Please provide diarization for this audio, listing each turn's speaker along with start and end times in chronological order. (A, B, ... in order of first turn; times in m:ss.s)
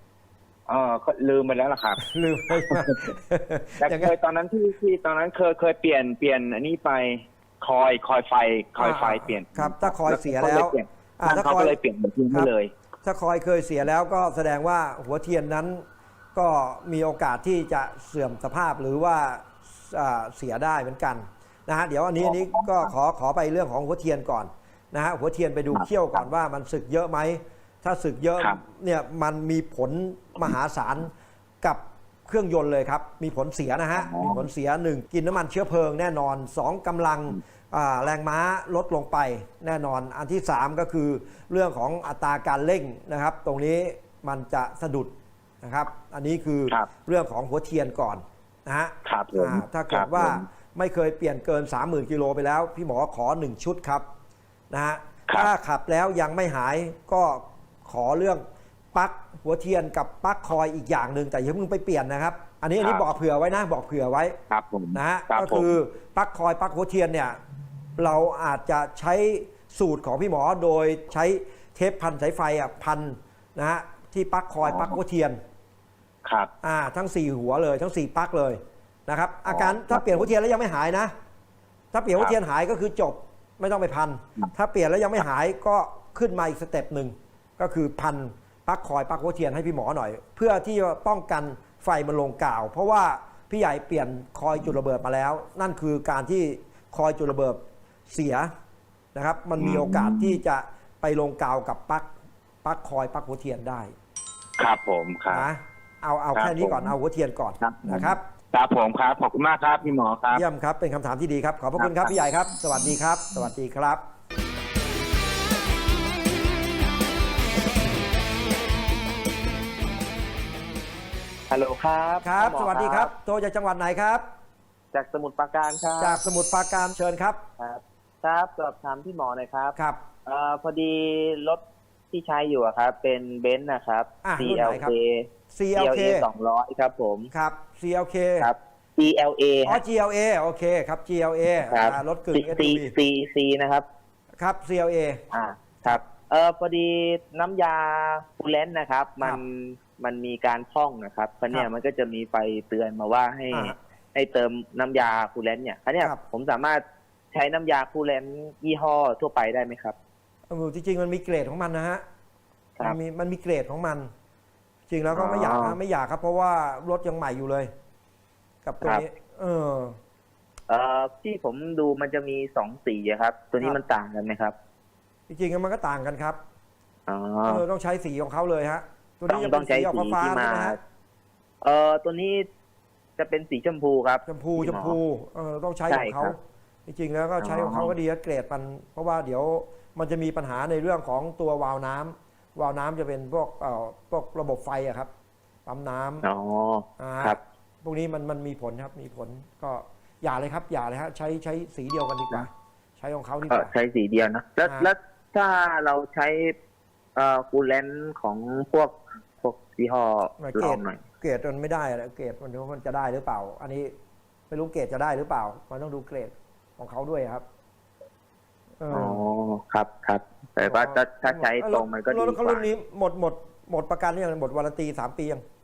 0:00.7-0:02.0 A
0:02.0-0:04.1 B
0:03.8-0:12.7 A
0:08.8-0:11.8 B
0:13.0-0:15.8 B
0:16.3-0:31.1 B
0:22.2-0:22.9 A
0:25.7-0:26.2 A
0:31.6-0:54.0 B
0:33.9-0:34.4 A
0:49.0-0:50.4 A
0:54.7-0:58.4 B
0:58.9-1:04.4 B
1:02.8-1:03.1 A
1:04.5-1:05.7 A
1:04.9-1:07.4 B
1:08.0-1:15.4 B
1:14.6-1:15.0 A
1:16.2-1:16.5 A
1:16.6-1:21.1 B
1:19.5-1:20.3 A
1:21.9-1:38.5 B
1:39.1-1:42.1 B
1:39.6-1:40.4 A
1:42.6-1:43.9 B
1:44.6-1:45.5 A
1:45.3-1:48.2 B
1:46.3-1:46.9 A
1:47.6-1:50.4 A
1:50.3-1:54.0 B
1:51.8-1:52.2 A
2:01.5-2:03.1 C
2:02.2-2:04.2 B
2:04.9-2:06.2 C
2:06.0-2:07.4 B
2:07.6-2:17.3 C
2:09.8-2:10.0 B
2:14.2-2:14.9 B
2:15.5-2:16.3 B
2:17.3-2:18.5 B
2:18.4-2:19.8 C
2:19.6-2:22.9 B
2:21.6-2:23.8 C
2:24.4-2:25.2 B
2:25.3-2:40.0 C
2:33.5-2:33.8 B
2:40.5-2:42.0 B
2:42.8-2:44.1 B
2:44.9-2:47.7 B
2:45.1-2:45.8 C
2:48.6-2:50.0 B
2:50.7-2:54.5 C
2:55.3-2:56.4 B
2:57.1-2:57.6 C
2:57.4-3:00.8 B
2:59.3-3:00.8 C
3:01.6-3:02.4 C
3:03.2-3:05.0 C
3:04.2-3:15.1 B
3:05.9-3:06.3 C
3:07.4-3:07.9 C
3:15.6-3:16.2 B
3:16.2-3:17.4 C
3:17.0-3:23.7 B
3:23.5-3:26.5 C
3:27.2-3:31.0 C
3:30.4-3:33.9 B
3:34.5-3:37.4 B
3:38.8-3:39.2 B
3:38.9-3:42.6 C
3:40.6-3:45.4 B